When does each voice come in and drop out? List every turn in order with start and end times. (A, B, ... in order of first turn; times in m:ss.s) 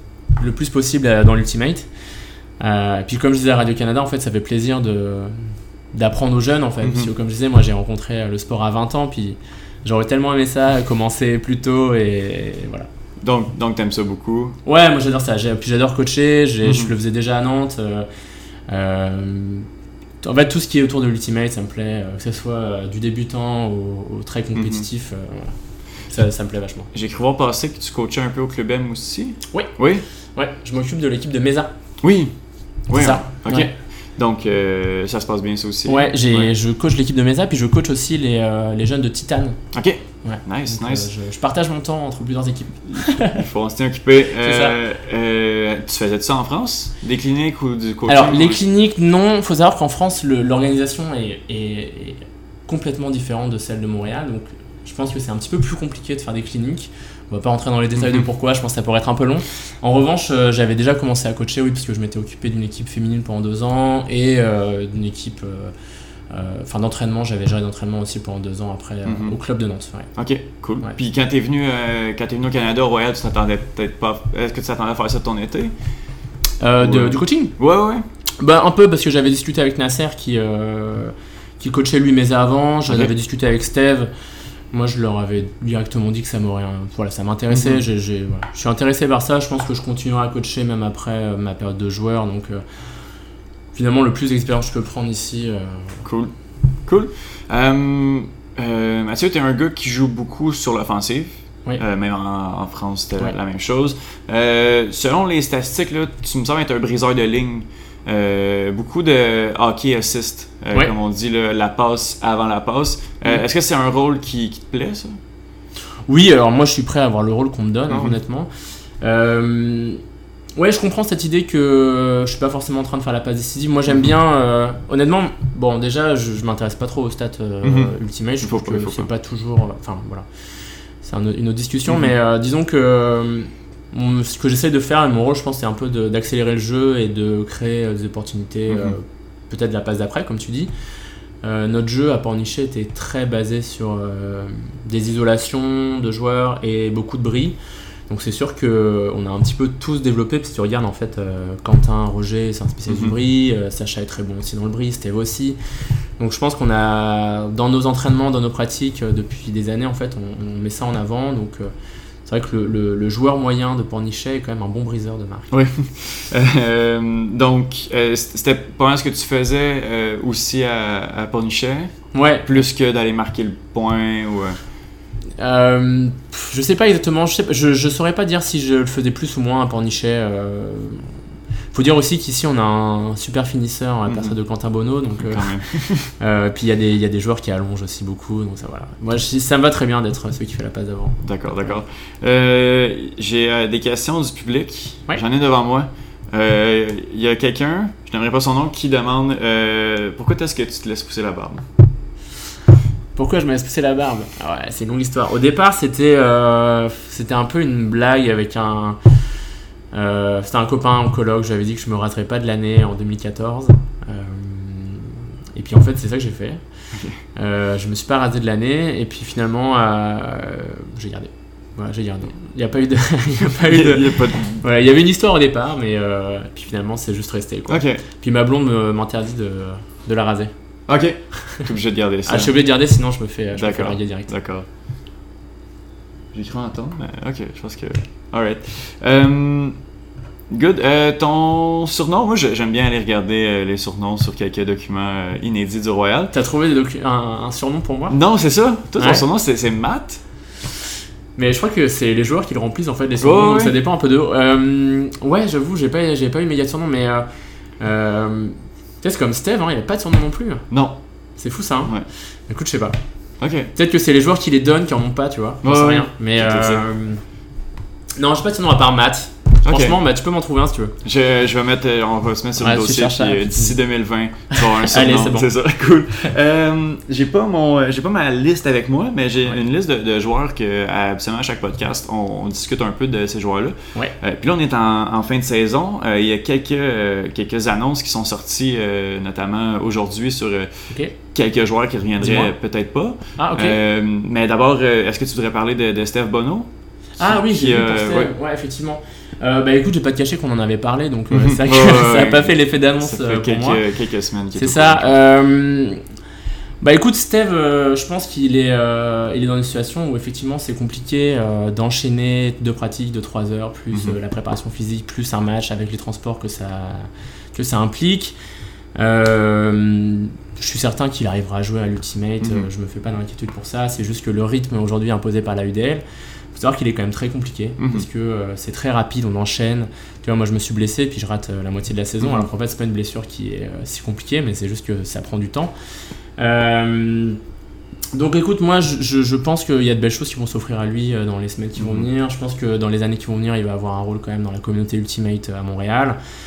0:00.4-0:01.9 A
0:02.6-0:12.9 A
0:06.8-0:07.1 B
0:13.2-0:14.6 B
0:14.6-0:18.1 A
0:16.6-0:16.9 B
0:18.7-0:19.7 A
0:20.2-0:26.9 A
0:24.6-0:24.8 B
0:26.9-0:30.0 B
0:30.4-0:31.7 A
0:32.0-0:32.3 B
0:32.9-0:36.5 B
0:32.9-0:33.7 A
0:35.9-0:39.7 A
0:39.7-0:41.1 B
0:40.2-0:43.4 A
0:42.9-0:48.6 B
0:44.4-0:44.8 A
0:48.1-1:05.7 A
1:06.3-1:10.1 A
1:09.0-1:09.4 B
1:10.2-1:15.7 B
1:16.6-1:17.6 A
1:16.8-1:18.1 B
1:18.4-1:24.1 A
1:24.7-1:32.6 A
1:27.5-1:27.8 B
1:33.7-1:36.0 A
1:36.0-1:36.3 B
1:36.8-1:55.2 B
1:56.1-2:00.0 A
1:57.9-1:58.2 B
2:00.6-2:10.3 A
2:07.6-2:07.9 B
2:08.4-2:09.1 B
2:11.0-2:20.7 A
2:11.9-2:12.1 B
2:18.7-2:18.9 B
2:21.4-2:27.6 A
2:28.1-2:35.6 A
2:32.9-2:33.1 B
2:36.2-2:41.7 A
2:42.2-2:45.5 A
2:45.5-2:54.6 B
2:52.1-2:52.5 A
2:55.4-3:01.1 A
3:01.7-3:11.8 A
3:04.1-3:04.4 B
3:05.2-3:06.1 B
3:11.2-3:21.6 B
3:23.1-3:29.0 A
3:29.9-3:36.6 A
3:36.9-3:37.2 B
3:37.3-3:50.5 A
3:43.6-3:44.6 B
3:47.7-3:48.0 B
3:50.9-3:52.5 B
3:52.3-3:54.3 A
3:53.5-3:54.7 B
3:56.3-3:59.8 B
4:00.5-4:06.3 B
4:06.3-4:08.2 A
4:08.1-4:10.2 B
4:09.0-4:09.2 A
4:11.4-4:17.3 A
4:13.2-4:13.8 B
4:17.8-4:20.7 A
4:20.7-4:21.0 B
4:21.4-4:23.0 A
4:23.4-4:23.7 B
4:23.7-4:27.2 A
4:25.6-4:26.8 B
4:28.2-4:31.0 A
4:29.6-4:30.0 B
4:31.0-4:56.7 B
4:32.6-4:33.8 A
4:34.5-4:35.5 A
4:50.9-4:51.1 A
4:52.2-4:52.5 A
4:53.4-4:53.8 A
4:57.2-5:03.8 A
4:57.2-4:58.3 B
5:01.3-5:05.1 B
5:04.5-5:06.0 A
5:06.8-5:18.4 A
5:13.9-5:14.2 B
5:18.9-5:35.7 A
5:22.4-5:22.7 B
5:27.8-5:28.1 B
5:32.2-5:32.5 B
5:36.4-5:37.4 A
5:38.1-5:46.2 A
5:41.8-5:42.1 B